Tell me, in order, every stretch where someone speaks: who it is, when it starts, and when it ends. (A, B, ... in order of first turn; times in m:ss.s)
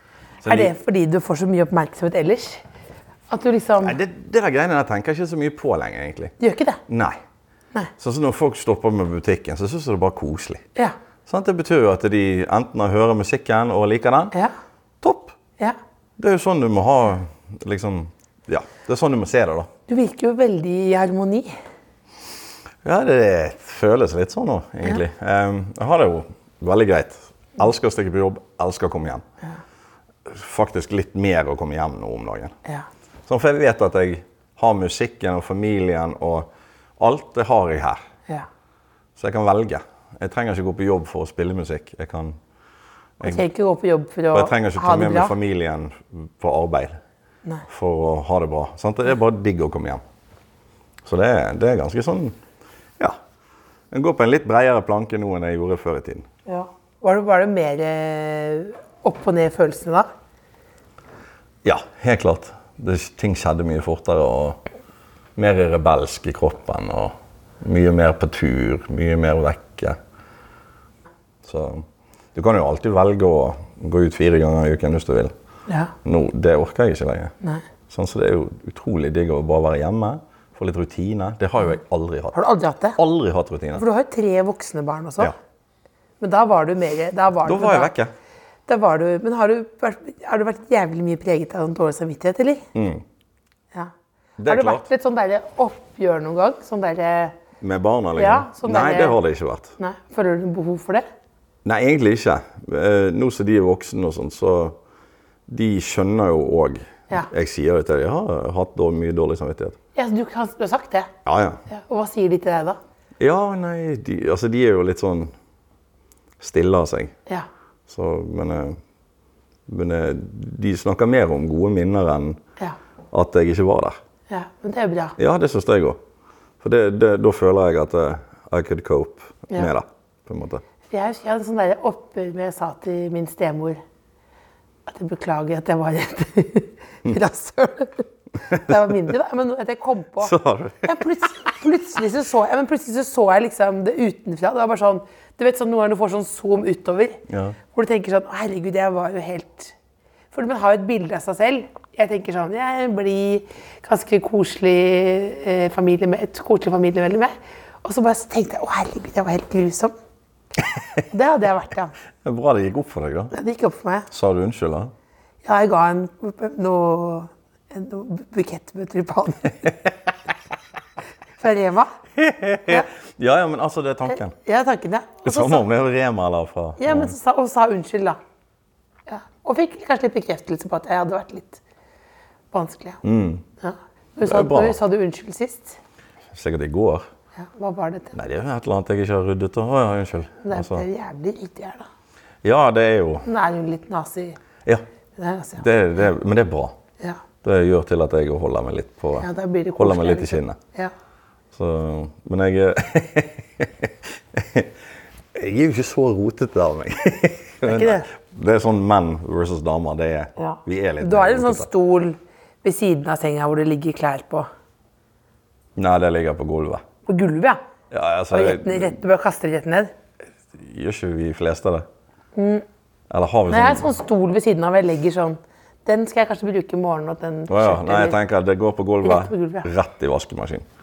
0:00.4-0:00.7 A
0:00.5-0:02.6 B
0:03.3-0:04.0 B
0:03.8-0:06.4 A
0:06.4-0:06.8 B
0:06.9-0:07.2 A
0:08.0-0:10.6 A
0:11.3-0:14.4 A
0:15.0-0:15.4 A
0:16.2-0:19.7 A
0:19.9-0:21.5 B
0:22.8-0:29.2 A
0:30.3-0:32.6 A
0:33.3-0:38.0 A
0:39.2-0:42.4 A
0:43.2-0:43.4 A
0:43.2-0:45.3 B
0:44.3-0:47.0 A
0:47.7-0:50.0 A
0:51.0-0:52.4 A
0:53.9-0:56.3 A
0:56.5-1:00.1 B
1:01.6-1:04.6 A
1:05.4-1:10.0 A
1:11.4-1:15.3 A
1:15.7-1:15.9 B
1:16.0-1:17.3 A
1:17.9-1:23.8 A
1:22.3-1:23.0 B
1:23.8-1:25.3 B
1:26.2-1:27.9 B
1:27.4-1:28.1 A
1:28.7-1:32.6 B
1:32.7-1:33.0 A
1:34.4-1:34.9 A
1:34.5-1:37.4 B
1:37.6-1:39.7 A
1:38.2-1:39.2 B
1:39.8-1:41.1 B
1:41.6-1:44.8 A
1:45.5-1:49.8 A
1:50.0-1:51.1 B
1:51.2-1:51.6 A
1:51.7-1:52.8 B
1:53.2-1:55.3 A
1:56.4-1:57.2 A
1:57.9-1:58.8 A
1:59.7-2:02.4 A
2:03.1-2:04.0 A
2:04.3-2:05.2 B
2:05.2-2:06.0 A
2:06.6-2:10.6 A
2:10.9-2:13.8 B
2:14.9-2:27.2 B
2:18.5-2:18.9 A
2:20.2-2:21.1 A
2:27.3-2:27.6 A
2:27.7-2:29.7 B
2:30.3-2:40.0 B
2:41.1-2:41.9 B
2:42.2-2:43.3 A
2:43.3-2:44.1 B
2:44.1-2:44.9 A
2:45.4-2:49.8 B
2:51.4-2:51.9 B
2:52.2-2:54.4 A
2:54.1-2:55.7 B
2:55.2-2:57.1 A
2:56.8-2:58.2 B
2:59.1-3:01.6 B
3:02.5-3:03.0 B
3:03.0-3:03.4 A
3:03.6-3:05.8 B
3:04.2-3:04.8 A
3:06.3-3:07.1 A
3:07.4-3:08.1 B
3:08.1-3:10.8 A
3:10.4-3:11.9 B
3:12.4-3:13.3 A
3:13.2-3:14.4 B
3:15.2-3:15.6 B
3:15.6-3:16.8 A
3:17.4-3:20.6 A
3:19.2-3:20.9 B
3:21.5-3:24.7 A
3:25.3-3:31.7 A
3:27.6-3:28.1 B
3:30.4-3:34.5 B
3:35.8-3:36.8 A
3:37.1-3:37.6 B
3:37.9-3:39.0 A
3:38.3-3:39.9 B
3:40.5-3:41.9 A
3:42.4-3:42.6 B
3:43.1-3:43.9 A
3:43.5-3:48.2 B
3:47.5-3:50.7 A
3:49.0-3:49.7 B